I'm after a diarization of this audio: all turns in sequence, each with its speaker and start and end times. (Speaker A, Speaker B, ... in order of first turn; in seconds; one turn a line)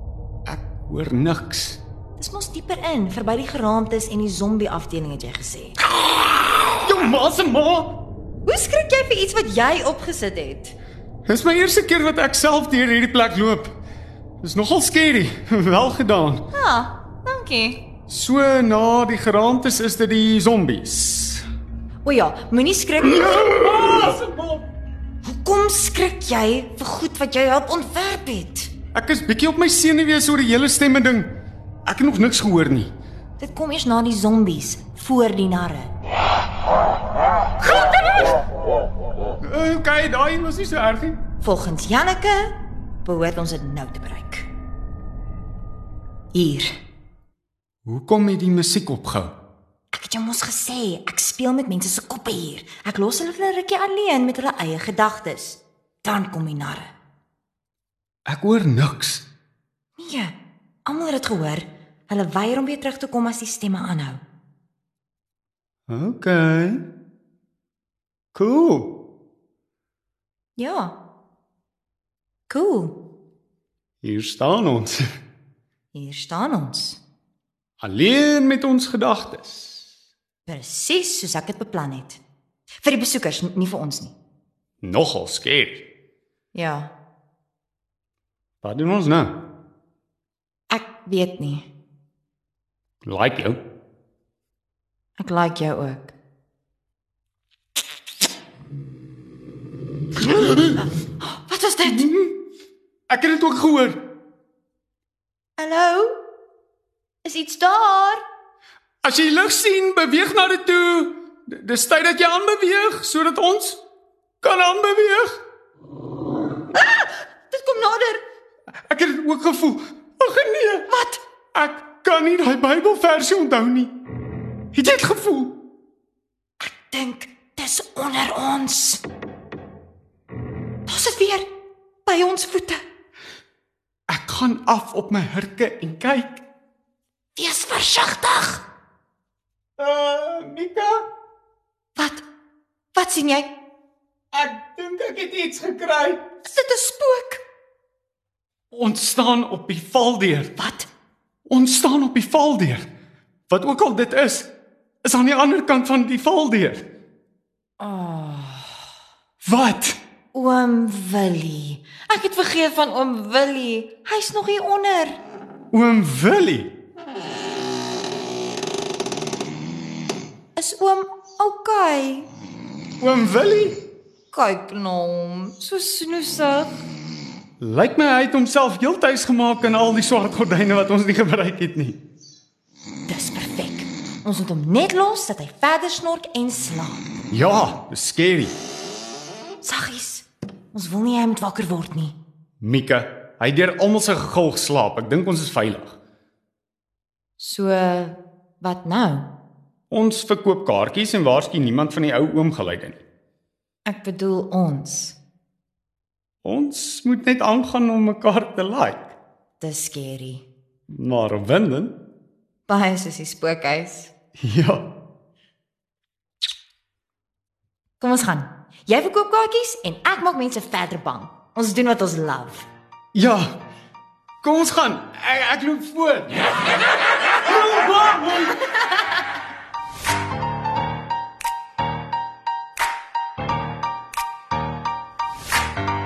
Speaker A: 0.5-1.8
Speaker B: 2.2-5.8
Speaker A: 6.8-8.0
Speaker B: 8.4-10.8
Speaker A: 11.3-13.7
Speaker A: 14.4-16.5
Speaker B: 16.5-17.9
Speaker A: 18.1-21.4
Speaker B: 22.0-23.7
Speaker A: 23.1-24.6
Speaker B: 25.2-28.7
Speaker A: 28.9-32.9
Speaker B: 33.4-35.9
Speaker A: 39.4-41.2
Speaker B: 41.4-44.5
Speaker B: 46.3-46.7
Speaker A: 47.9-49.3
Speaker B: 49.9-56.9
Speaker A: 58.3-59.2
Speaker B: 60.0-64.2
Speaker A: 65.9-66.8
Speaker A: 68.3-69.0
Speaker B: 70.6-71.0
Speaker B: 72.5-73.0
Speaker A: 74.0-75.0
Speaker B: 75.9-77.0
Speaker A: 77.8-79.8
Speaker B: 80.5-82.2
Speaker B: 82.8-84.1
Speaker A: 84.8-85.9
Speaker B: 86.5-86.9
Speaker A: 88.6-89.4
Speaker B: 90.7-91.7
Speaker A: 93.0-93.6
Speaker B: 95.2-96.1
Speaker B: 101.2-102.1
Speaker A: 101.9-102.3
Speaker A: 103.1-104.0
Speaker B: 105.6-106.2
Speaker B: 107.2-108.2
Speaker A: 109.0-113.8
Speaker A: 114.4-115.3
Speaker B: 116.7-118.2
Speaker A: 118.9-120.9
Speaker B: 120.9-121.2
Speaker A: 121.5-123.9
Speaker A: 124.7-125.6
Speaker B: 126.6-129.0
Speaker B: 130.9-131.5
Speaker B: 132.1-132.8
Speaker A: 134.1-136.4
Speaker B: 137.4-138.7
Speaker A: 139.8-141.0
Speaker B: 142.0-142.2
Speaker B: 142.9-143.6
Speaker A: 144.3-146.2
Speaker B: 146.5-147.4
Speaker A: 148.7-150.5
Speaker B: 150.6-150.9
Speaker A: 151.5-152.9
Speaker A: 153.5-154.5
Speaker A: 155.0-156.8
Speaker B: 157.8-158.8
Speaker A: 159.4-160.0
Speaker B: 160.3-165.2
Speaker A: 165.7-166.7
Speaker B: 170.6-172.3
Speaker A: 173.0-173.8
Speaker B: 174.3-176.8
Speaker A: 177.6-182.0
Speaker B: 183.1-187.1
Speaker A: 187.3-188.5
Speaker B: 189.6-192.2
Speaker A: 192.6-195.9
Speaker B: 197.4-199.3
Speaker A: 199.9-203.0
Speaker B: 203.9-205.2
Speaker A: 206.4-209.1
Speaker B: 209.6-210.5
Speaker A: 210.9-211.9
Speaker B: 212.7-214.1
Speaker A: 214.4-214.9
Speaker B: 218.0-222.7
Speaker A: 223.1-223.6
Speaker A: 224.4-226.4
Speaker A: 227.4-228.7